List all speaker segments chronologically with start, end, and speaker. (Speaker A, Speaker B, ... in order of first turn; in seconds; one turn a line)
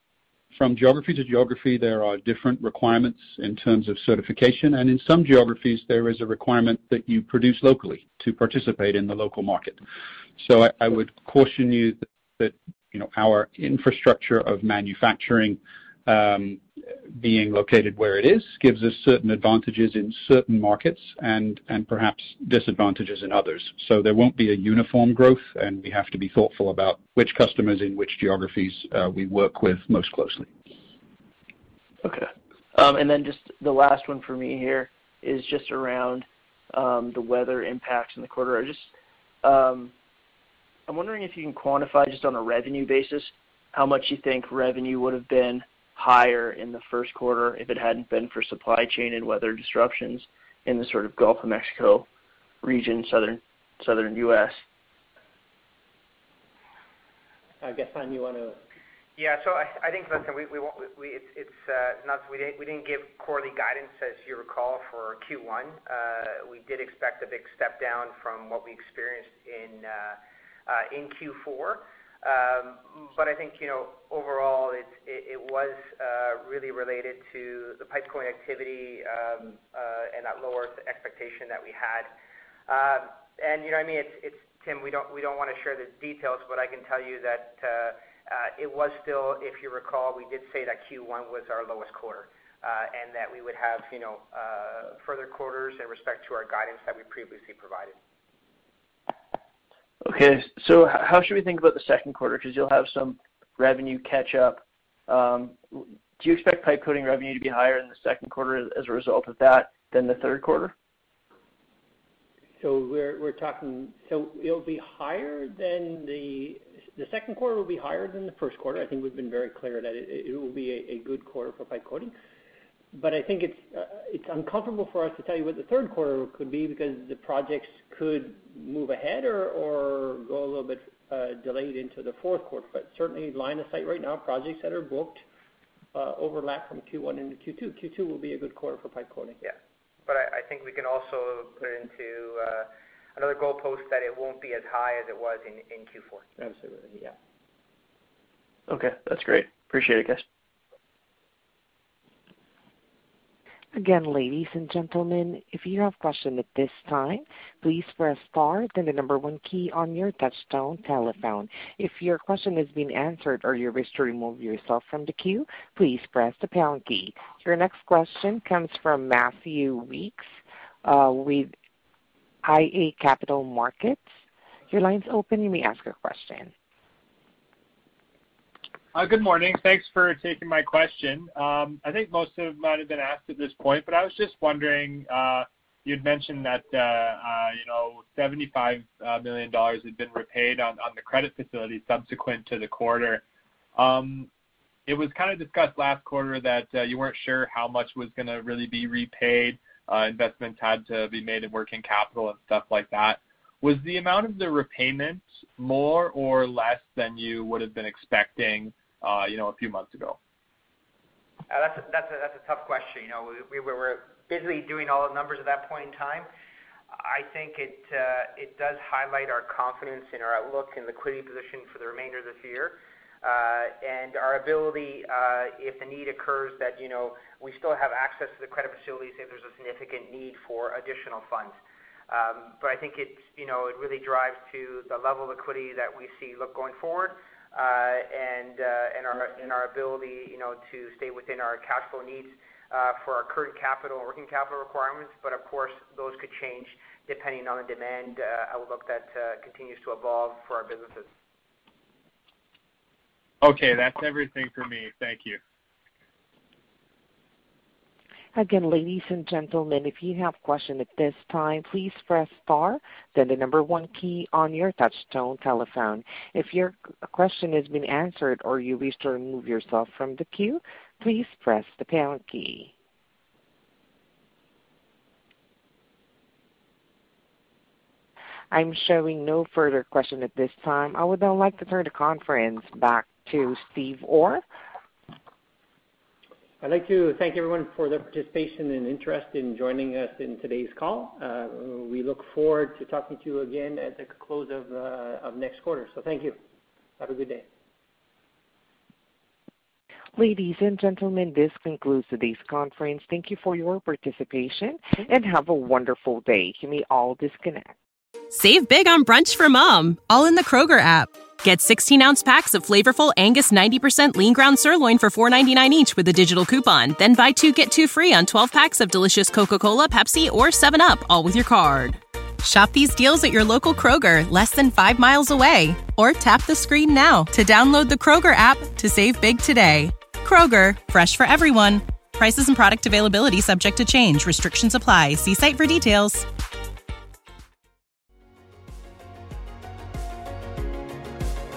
Speaker A: 0.6-9.8
Speaker A: 10.4-16.6
Speaker A: 17.2-30.5
Speaker B: 32.0-38.9
Speaker B: 39.4-39.9
Speaker B: 40.9-52.1
Speaker B: 52.6-54.6
Speaker C: 57.6-58.6
Speaker D: 59.2-82.1
Speaker D: 82.7-98.0
Speaker B: 100.0-110.7
Speaker C: 112.6-122.1
Speaker C: 122.9-135.2
Speaker C: 135.9-139.4
Speaker D: 140.1-146.3
Speaker C: 146.4-147.2
Speaker B: 148.7-150.2
Speaker E: 153.7-170.3
Speaker E: 170.8-171.5
Speaker E: 172.4-174.1
Speaker E: 174.7-176.5
Speaker F: 178.9-193.2
Speaker F: 193.8-194.3
Speaker F: 194.9-210.2
Speaker D: 211.5-216.3
Speaker D: 217.0-231.6
Speaker D: 232.1-251.1
Speaker F: 253.4-255.4
Speaker E: 258.4-272.7
Speaker E: 278.5-284.4
Speaker C: 286.6-296.4
Speaker C: 297.0-297.5
Speaker E: 300.2-307.7
Speaker G: 308.3-336.3